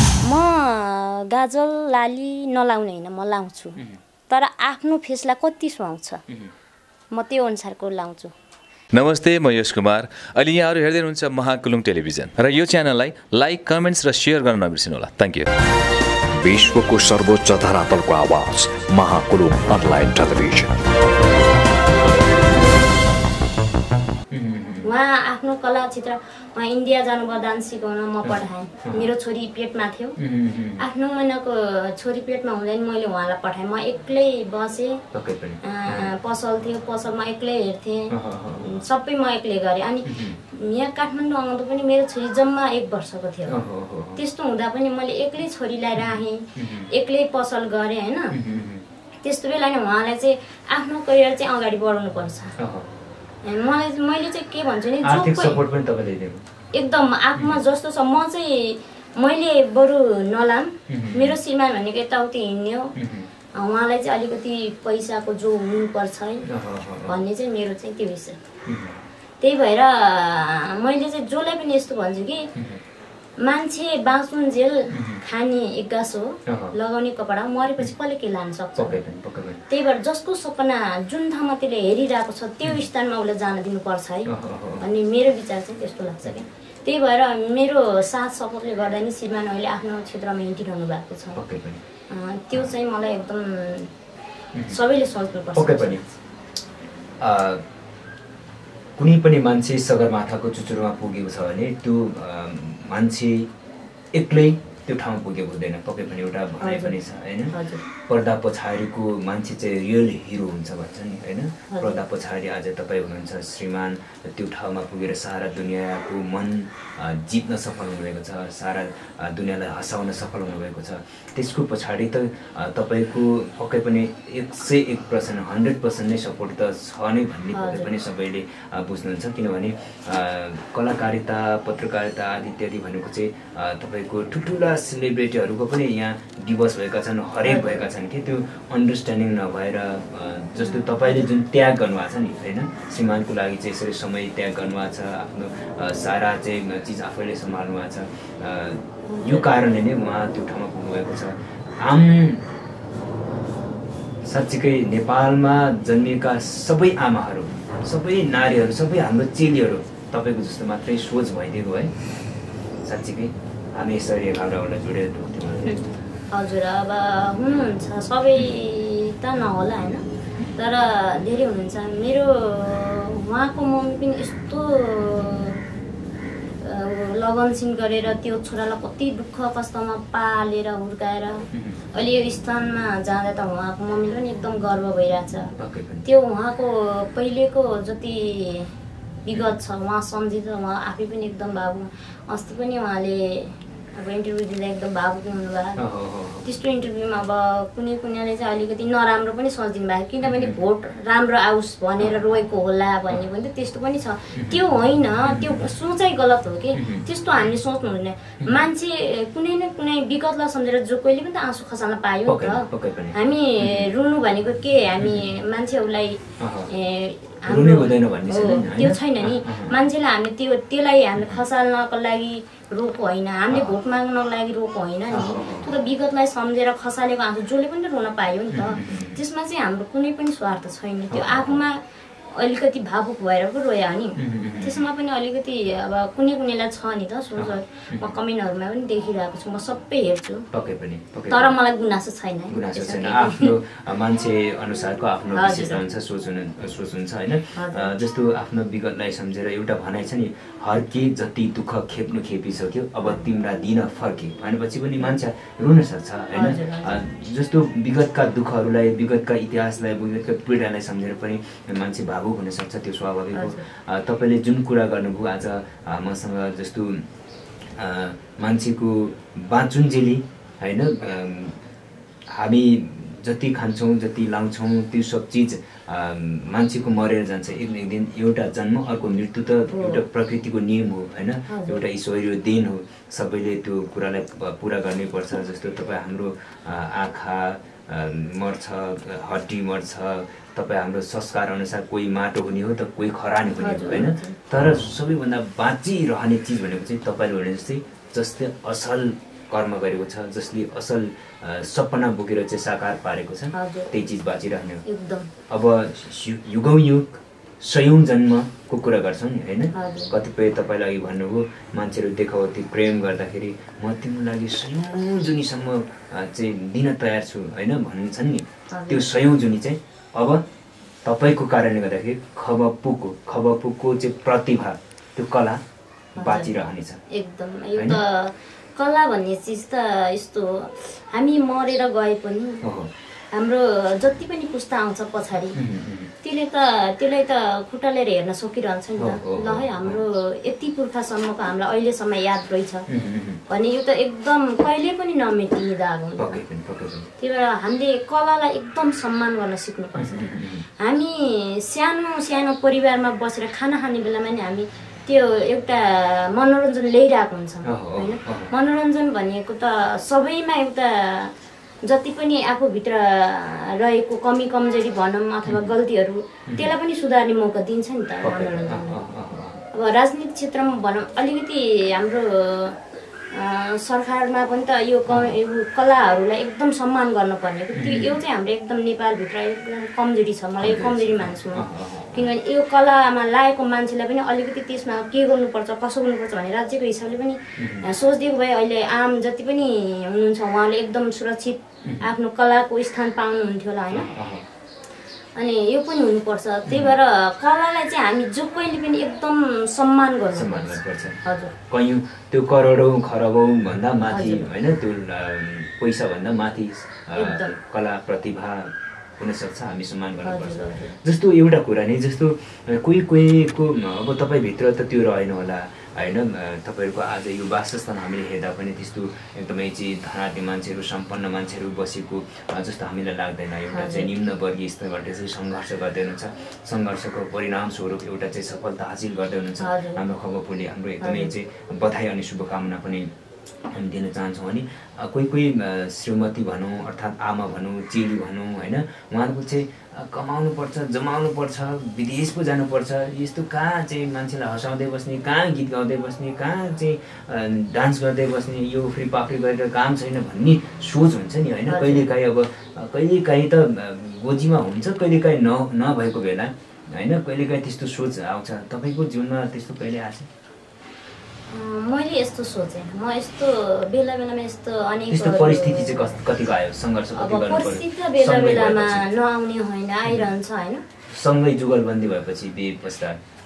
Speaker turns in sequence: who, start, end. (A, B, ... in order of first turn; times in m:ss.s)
0:00.2-0:06.2 A
0:06.3-0:06.5 B
0:07.1-0:08.3 A
0:08.9-0:15.5 C
0:16.4-0:20.8 D
0:24.3-0:24.9 B
0:24.8-0:30.2 A
0:28.2-0:29.1 B
0:30.2-0:30.8 B
0:30.8-0:35.0 A
0:35.1-0:36.1 B
0:35.6-0:43.6 A
0:38.1-0:38.7 B
0:40.1-0:40.4 B
0:43.5-0:44.2 B
0:44.2-0:48.4 A
0:46.0-0:46.9 B
0:48.3-0:48.9 B
0:49.2-0:52.5 A
0:52.6-0:52.9 B
0:53.4-0:55.6 A
0:55.0-0:56.4 B
0:56.7-1:02.9 A
1:00.9-1:01.4 B
1:03.0-1:03.3 B
1:03.6-1:06.5 A
1:06.5-1:07.2 B
1:07.1-1:08.4 A
1:08.7-1:09.0 B
1:09.4-1:12.5 A
1:12.6-1:12.8 B
1:13.4-1:19.0 A
1:14.9-1:15.2 B
1:16.5-1:16.7 B
1:18.8-1:19.6 B
1:19.7-1:31.4 A
1:24.3-1:24.8 B
1:31.4-1:31.8 B
1:32.1-1:33.9 A
1:34.5-1:34.8 B
1:34.7-1:36.1 A
1:35.6-1:36.0 B
1:37.2-1:37.6 B
1:39.0-1:43.5 B
1:44.1-2:32.4 B
1:46.6-1:47.0 A
1:47.5-1:47.8 A
1:51.7-1:52.0 A
2:07.5-2:07.9 A
2:17.4-2:17.8 A
2:20.6-2:21.3 A
2:29.1-2:29.5 A
2:34.2-2:41.9 B
2:42.8-2:45.8 B
2:46.3-2:50.0 A
2:50.6-2:55.6 A
2:56.6-3:05.5 A
3:01.5-3:01.8 B
3:05.6-3:06.0 B
3:06.0-3:08.7 A
3:09.2-3:15.8 A
3:15.8-3:16.5 B
3:16.4-3:51.8 A
3:20.2-3:20.6 B
3:22.0-3:22.2 B
3:24.4-3:24.6 B
3:25.3-3:25.6 B
3:26.8-3:27.1 B
3:32.3-3:33.9 B
3:35.0-3:35.3 B
3:36.4-3:36.7 B
3:37.5-3:39.8 B
3:41.2-3:41.4 B
3:43.5-3:43.8 B
3:45.1-3:45.7 B
3:48.5-3:49.2 B
3:51.1-3:51.6 B
3:52.3-4:00.5 A
3:54.2-3:54.8 B
3:57.4-3:58.1 B
4:00.5-4:01.6 B
4:01.3-4:03.6 A
4:02.5-4:27.1 B
4:05.3-4:05.8 A
4:07.6-4:07.9 A
4:16.3-4:17.0 A
4:23.3-4:23.6 A
4:27.8-4:31.6 B
4:32.3-5:04.8 B
4:39.7-4:40.0 A
4:41.5-4:41.8 A
4:53.6-4:54.4 A
5:03.5-5:03.9 A
5:04.8-5:05.3 A
5:05.5-5:20.4 B
5:09.7-5:10.1 A
5:18.7-5:19.1 A
5:21.0-5:25.6 B
5:26.2-5:26.5 A
5:26.2-5:27.0 B
5:27.1-5:32.7 A
5:32.6-5:32.9 B
5:33.3-5:35.6 A
5:35.6-5:36.1 B
5:36.2-5:42.9 A
5:39.0-5:40.0 B
5:42.9-5:43.4 B
5:43.5-5:46.4 A
5:46.2-5:47.1 B
5:47.2-6:01.3 A
5:50.0-5:50.7 B
5:57.6-5:58.5 B
6:01.8-6:09.0 A
6:08.2-6:09.6 B
6:09.7-6:12.8 A
6:13.3-6:34.1 A
6:15.1-6:15.4 B
6:17.7-6:18.2 B
6:20.6-6:22.3 B
6:27.6-6:27.9 B
6:31.8-6:32.1 B
6:33.9-6:34.5 B
6:35.4-6:41.5 A
6:36.7-6:37.0 B
6:40.3-7:13.1 B
6:44.1-6:44.5 A
6:47.2-6:47.6 A
6:50.2-6:51.0 A
7:03.7-7:04.1 A
7:09.6-7:10.0 A
7:11.0-7:11.3 A
7:13.7-7:40.3 B
7:31.7-7:32.0 A
7:41.5-7:46.2 A
7:45.1-7:49.1 B
7:47.2-7:50.8 A
7:50.1-7:50.3 B
7:51.1-7:53.2 B